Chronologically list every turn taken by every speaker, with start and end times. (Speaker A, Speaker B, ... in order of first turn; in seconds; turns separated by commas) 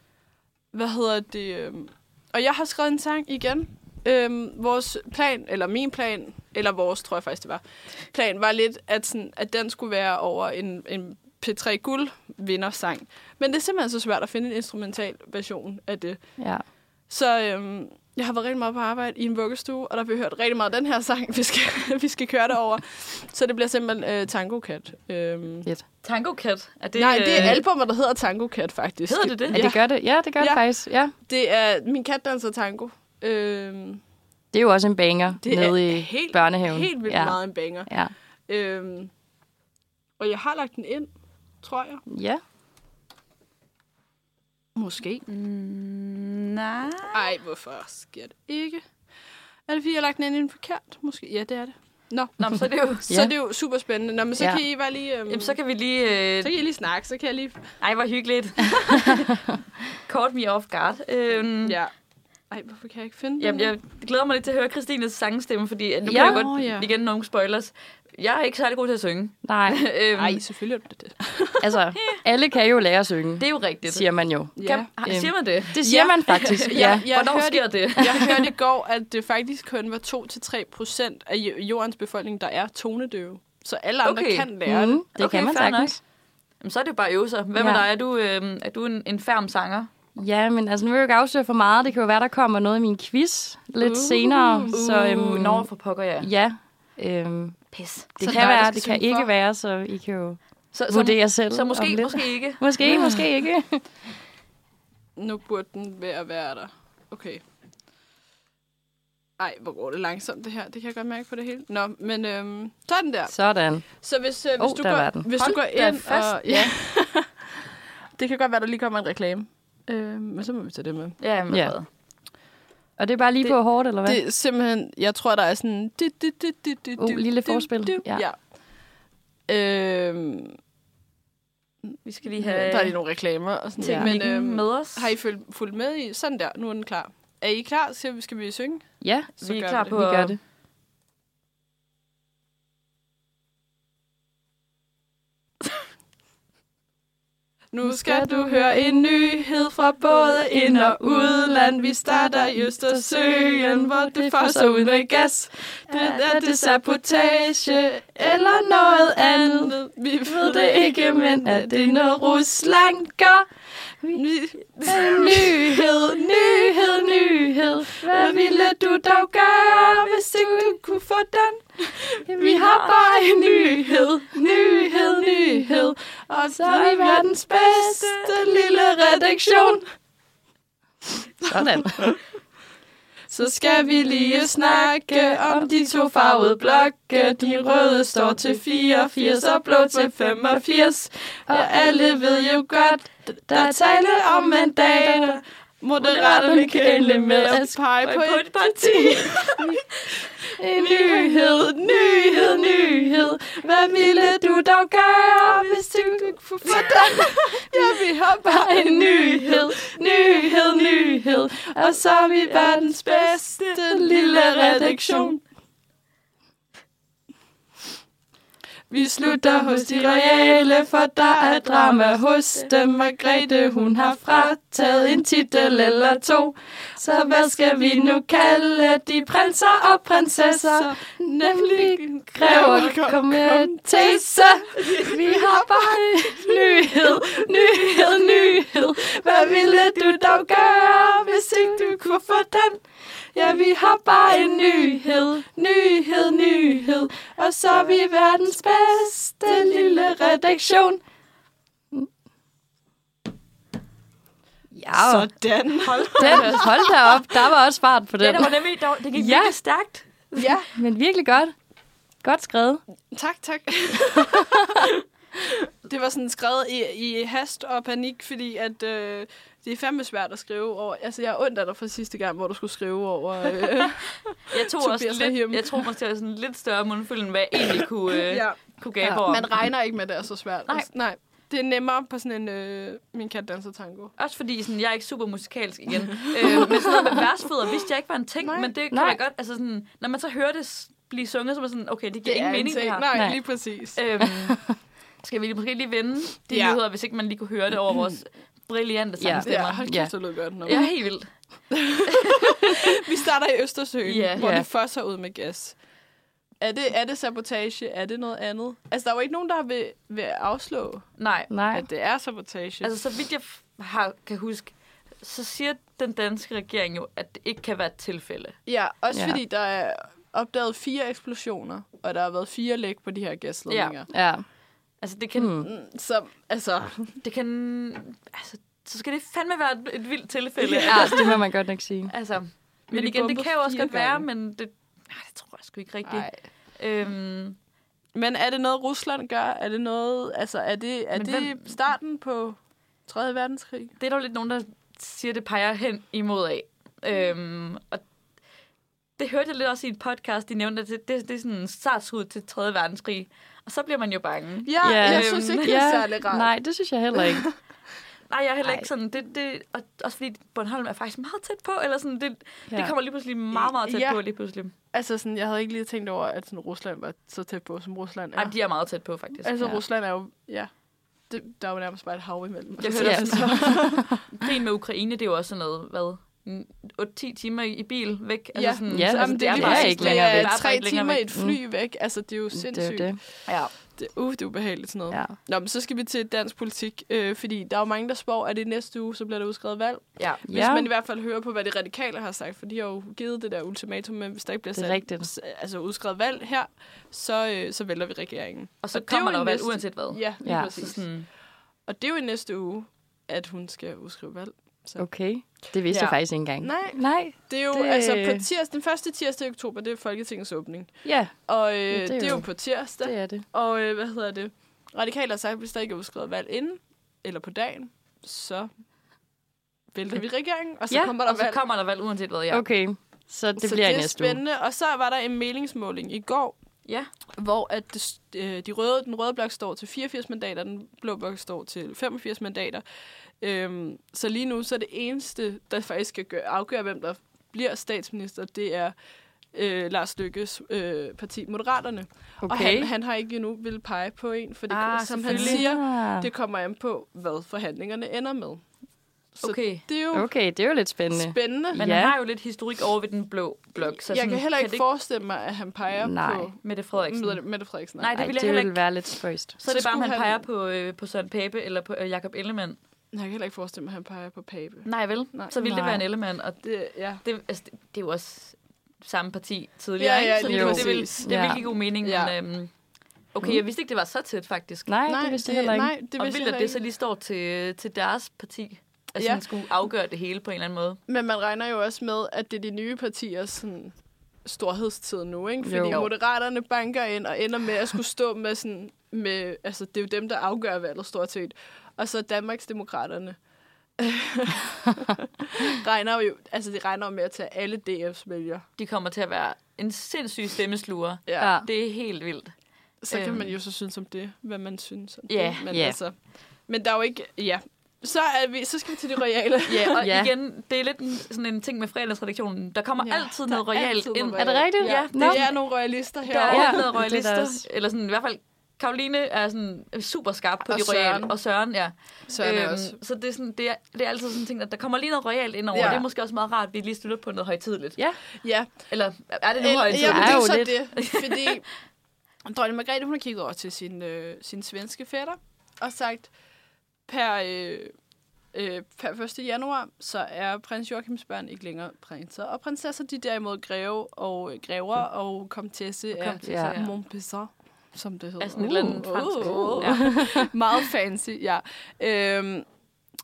Speaker A: 0.7-16.4, Speaker B: 16.4-16.6, Speaker A: 17.1-25.7, Speaker C: 26.0-27.6, Speaker A: 26.9-29.8, Speaker C: 29.1-29.7, Speaker B: 29.5-31.1, Speaker A: 30.4-30.6, Speaker A: 31.1-34.0, Speaker B: 34.5-38.1, Speaker A: 35.4-37.9, Speaker A: 38.5-39.1, Speaker A: 40.2-41.1, Speaker A: 41.6-42.0, Speaker B: 42.1-42.4, Speaker A: 44.7-45.2, Speaker C: 45.3-47.3, Speaker A: 47.1-48.9, Speaker A: 49.6-52.4, Speaker C: 52.4-53.1, Speaker A: 53.1-55.6, Speaker B: 53.1-53.3, Speaker C: 55.3-56.5, Speaker A: 56.4-57.8, Speaker C: 57.8-59.3, Speaker C: 60.0-61.8, Speaker A: 61.6-61.9, Speaker A: 62.5-63.7, Speaker C: 63.4-70.4, Speaker B: 66.1-66.4, Speaker A: 66.1-66.9, Speaker B: 69.4-69.8, Speaker A: 70.1-71.8, Speaker B: 71.6-77.1, Speaker C: 73.4-78.5, Speaker A: 74.6-74.9, Speaker A: 75.8-85.0, Speaker C: 84.0-84.5, Speaker B: 84.7-86.0, Speaker C: 85.1-86.0, Speaker C: 86.6-89.9, Speaker B: 87.5-87.8, Speaker B: 90.2-95.7, Speaker A: 93.8-94.8, Speaker C: 94.7-96.3, Speaker B: 96.2-103.8, Speaker C: 97.7-98.6, Speaker A: 98.2-99.3, Speaker C: 100.7-103.1, Speaker A: 105.2-107.4, Speaker A: 109.4-113.3, Speaker B: 113.3-113.9, Speaker A: 113.9-121.2, Speaker B: 114.6-116.7, Speaker C: 115.4-116.1, Speaker C: 121.2-121.9, Speaker B: 123.0-124.2, Speaker A: 124.0-128.4, Speaker B: 127.0-128.2, Speaker A: 129.5-130.6, Speaker C: 132.0-132.9, Speaker A: 132.4-139.9, Speaker B: 133.8-134.1, Speaker C: 134.0-135.1, Speaker B: 139.0-139.3, Speaker C: 139.4-140.4, Speaker B: 139.8-140.4, Speaker A: 147.7-163.4, Speaker B: 147.8-148.7, Speaker B: 150.5-163.4, Speaker A: 164.1-179.8, Speaker B: 164.9-170.8, Speaker B: 172.2-175.9, Speaker B: 176.5-178.2, Speaker A: 181.4-182.2, Speaker B: 181.5-182.2, Speaker A: 183.3-199.8, Speaker B: 184.1-185.6, Speaker B: 189.8-190.1, Speaker B: 191.5-192.2, Speaker B: 193.5-195.4, Speaker B: 196.0-197.8, Speaker C: 198.0-199.8, Speaker B: 200.6-207.8, Speaker A: 200.6-204.6, Speaker A: 205.4-215.4, Speaker C: 206.7-206.9, Speaker B: 208.4-215.3, Speaker A: 218.9-226.4, Speaker B: 219.2-241.9, Speaker A: 227.1-228.6, Speaker A: 230.4-242.8, Speaker A: 243.3-251.0, Speaker B: 243.5-245.4, Speaker B: 249.5-250.3, Speaker B: 254.7-255.3, Speaker A: 254.9-256.9, Speaker C: 255.8-256.8, Speaker B: 256.2-258.5, Speaker C: 258.2-260.5, Speaker B: 259.1-259.6, Speaker A: 260.4-260.7, Speaker B: 260.7-261.5, Speaker B: 262.2-262.8, Speaker A: 263.1-275.9, Speaker C: 274.5-279.6, Speaker A: 278.1-278.6, Speaker A: 279.1-284.1, Speaker C: 284.2-293.2, Speaker A: 286.4-286.8, Speaker A: 288.4-288.7, Speaker B: 288.9-289.2, Speaker A: 292.2-294.1, Speaker B: 293.1-293.4, Speaker C: 293.9-300.0, Speaker B: 294.2-294.7, Speaker A: 296.5-296.8, Speaker A: 297.9-298.2, Speaker B: 299.2-300.1, Speaker A: 299.4-300.8, Speaker C: 300.6-301.3, Speaker A: 301.7-305.8, Speaker C: 302.1-302.4, Speaker C: 304.0-304.6, Speaker B: 304.4-304.6, Speaker A: 306.6-311.1, Speaker C: 311.2-311.5, Speaker B: 311.5-311.9, Speaker A: 311.7-312.9, Speaker C: 312.8-318.6, Speaker A: 318.6-324.1, Speaker B: 319.1-319.4, Speaker C: 323.7-324.0, Speaker B: 324.1-324.4, Speaker C: 325.0-325.6, Speaker B: 325.4-325.7, Speaker A: 325.6-327.2, Speaker C: 327.2-331.4, Speaker A: 330.6-331.3, Speaker B: 330.9-332.1, Speaker C: 332.1-337.6, Speaker A: 332.9-334.2, Speaker A: 336.1-336.4, Speaker A: 338.1-343.9, Speaker C: 341.1-341.7, Speaker C: 344.0-348.0, Speaker C: 349.2-355.7, Speaker A: 354.6-356.5, Speaker B: 354.8-357.5, Speaker A: 357.1-357.5, Speaker C: 358.3-364.7, Speaker A: 363.5-364.2, Speaker A: 364.9-368.5, Speaker C: 368.3-369.6, Speaker A: 369.4-370.7, Speaker A: 371.3-374.1, Speaker C: 372.8-381.2, Speaker B: 372.9-374.2, Speaker A: 378.5-401.1, Speaker B: 378.9-380.6, Speaker B: 381.3-381.6, Speaker B: 382.5-383.2, Speaker C: 383.4-383.7, Speaker B: 385.1-385.4, Speaker C: 390.2-390.4, Speaker B: 390.4-390.9, Speaker B: 394.7-395.3, Speaker C: 398.8-401.3, Speaker B: 400.4-400.7, Speaker A: 401.9-405.1, Speaker B: 405.0-408.4, Speaker C: 405.9-406.2, Speaker A: 405.9-418.7, Speaker B: 411.0-413.4, Speaker A: 419.9-421.6, Speaker C: 421.2-422.6, Speaker B: 422.5-424.4, Speaker A: 423.6-426.6, Speaker A: 427.4-432.8, Speaker A: 433.4-438.9, Speaker A: 439.5-448.6, Speaker B: 442.4-442.9, Speaker C: 444.7-445.6, Speaker B: 445.2-446.3, Speaker A: 449.4-450.3, Speaker C: 449.4-449.9, Speaker B: 450.1-452.1, Speaker A: 451.1-451.8, Speaker C: 451.7-454.8, Speaker A: 453.8-458.2, Speaker B: 456.0-456.5, Speaker C: 456.6-457.4, Speaker C: 458.0-458.9, Speaker B: 458.1-459.5, Speaker C: 459.6-462.8, Speaker A: 459.6-460.4, Speaker A: 463.1-465.5, Speaker C: 464.8-466.6, Speaker B: 465.6-466.0, Speaker A: 466.6-467.2, Speaker C: 467.2-472.7, Speaker A: 470.0-472.3, Speaker B: 470.4-471.6, Speaker C: 473.3-474.9, Speaker B: 474.9-475.9, Speaker A: 475.1-476.8, Speaker C: 476.2-481.0, Speaker A: 479.2-479.4, Speaker A: 481.1-493.4, Speaker B: 485.6-486.0, Speaker A: 494.0-498.6, Speaker C: 498.8-502.5, Speaker A: 501.3-501.6, Speaker B: 501.4-501.7, Speaker A: 503.0-510.0, Speaker C: 503.1-503.5, Speaker C: 505.3-505.7, Speaker B: 505.7-506.0, Speaker C: 509.7-515.5, Speaker B: 510.0-510.3, Speaker A: 513.0-516.9, Speaker B: 514.4-515.5, Speaker C: 516.2-528.0, Speaker B: 516.5-517.6, Speaker A: 520.7-521.3, Speaker A: 522.3-523.0, Speaker A: 525.7-526.0, Speaker A: 528.4-528.7, Speaker C: 528.9-531.6, Speaker A: 529.6-531.6, Speaker B: 529.9-530.7, Speaker A: 532.4-536.3, Speaker A: 537.0-537.9, Speaker A: 538.5-552.7, Speaker C: 546.1-546.9, Speaker B: 546.4-546.7, Speaker C: 548.4-550.4, Speaker B: 549.6-550.3